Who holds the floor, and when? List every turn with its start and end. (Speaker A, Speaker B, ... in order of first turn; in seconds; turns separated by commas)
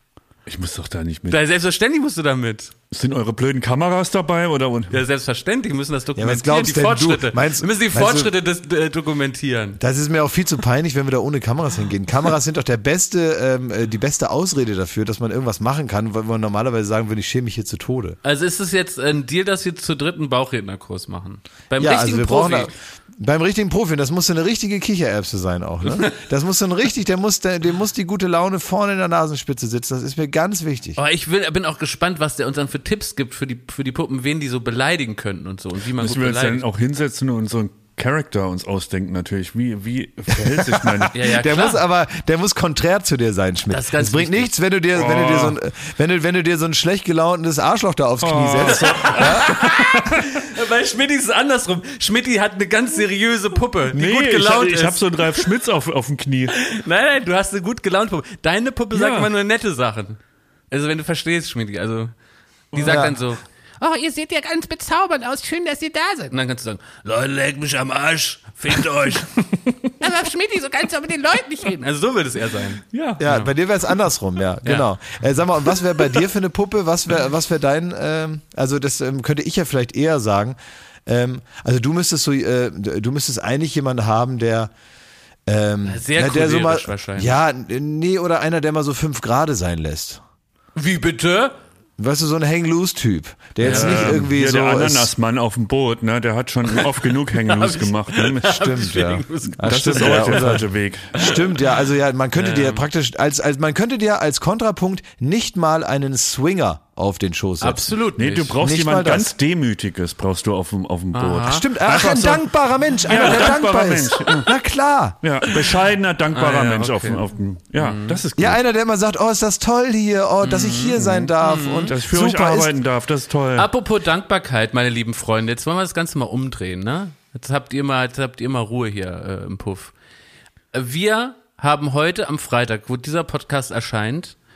Speaker A: 0.5-1.4, Speaker B: 1.3-2.7, Speaker A: 2.9-5.0, Speaker B: 4.9-9.8, Speaker C: 6.2-8.3, Speaker C: 9.8-18.2, Speaker B: 18.2-22.7, Speaker C: 21.8-31.0, Speaker B: 31.0-36.6, Speaker A: 36.0-41.4, Speaker C: 40.4-49.5, Speaker B: 41.1-41.8, Speaker B: 43.7-44.5, Speaker A: 44.9-45.6, Speaker A: 48.2-50.3, Speaker B: 48.7-55.0, Speaker A: 53.9-56.5, Speaker B: 56.5-60.2, Speaker A: 58.9-59.3, Speaker B: 60.7-62.1, Speaker A: 62.7-63.1, Speaker B: 62.7-69.3, Speaker C: 62.8-63.1, Speaker B: 70.0-73.5, Speaker A: 72.9-73.3, Speaker C: 73.2-84.7, Speaker C: 85.5-90.2, Speaker B: 85.8-87.3, Speaker B: 90.8-91.5, Speaker C: 92.0-95.1, Speaker B: 93.6-94.2, Speaker A: 93.6-98.8, Speaker B: 97.3-100.6, Speaker C: 98.4-100.6, Speaker A: 99.6-101.3, Speaker C: 101.2-107.9, Speaker B: 102.3-102.8, Speaker B: 107.6-108.5, Speaker A: 108.2-112.5, Speaker C: 108.6-109.3, Speaker B: 111.1-111.6, Speaker C: 111.4-115.2, Speaker A: 113.0-114.5, Speaker B: 113.1-113.5, Speaker A: 115.2-118.6, Speaker B: 116.3-117.2, Speaker B: 117.8-118.2, Speaker C: 118.3-122.7, Speaker B: 120.4-121.9, Speaker A: 121.0-121.3, Speaker A: 121.9-123.7, Speaker B: 123.5-129.9, Speaker B: 130.7-134.4